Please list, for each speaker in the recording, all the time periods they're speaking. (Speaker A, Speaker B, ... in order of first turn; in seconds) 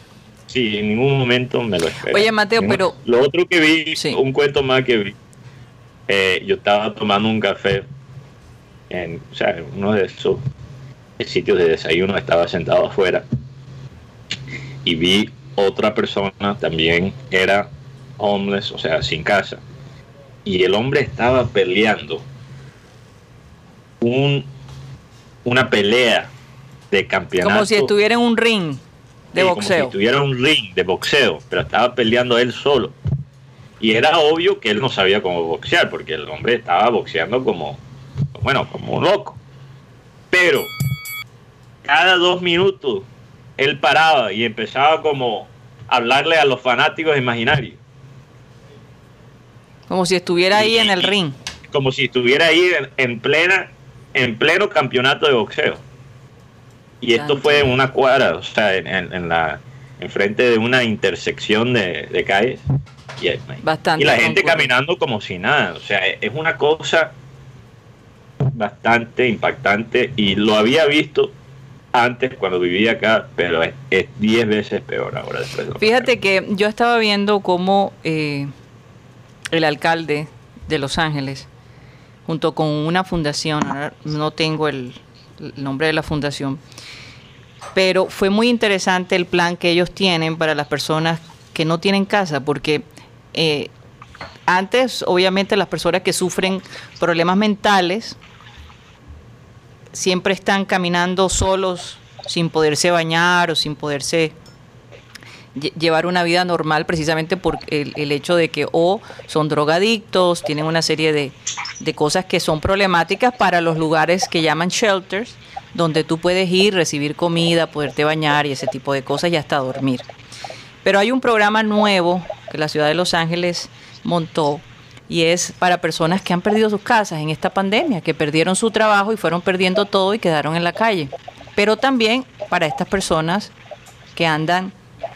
Speaker A: 0.5-5.1, 6.1-7.8, 8.9-10.4, 11.2-13.2, 14.8-19.6, 20.4-22.2, 24.0-24.5, 25.4-26.3, 26.9-27.9, 29.4-32.9, 33.8-37.8, 38.3-39.4, 40.3-40.7, 41.8-43.1, 43.6-47.8, 50.5-51.1, 51.7-55.8, 57.0-62.6, 63.2-67.1, 68.4-71.3, 71.9-76.1
Speaker B: 2.1-2.9, 27.4-28.8, 29.3-29.9, 49.9-51.3, 57.1-57.7, 63.6-64.7, 75.8-78.5, 79.5-81.5, 82.2-86.6, 87.7-93.7, 94.5-98.2, 99.9-104.3, 105.5-120.0, 120.8-133.5, 134.1-134.7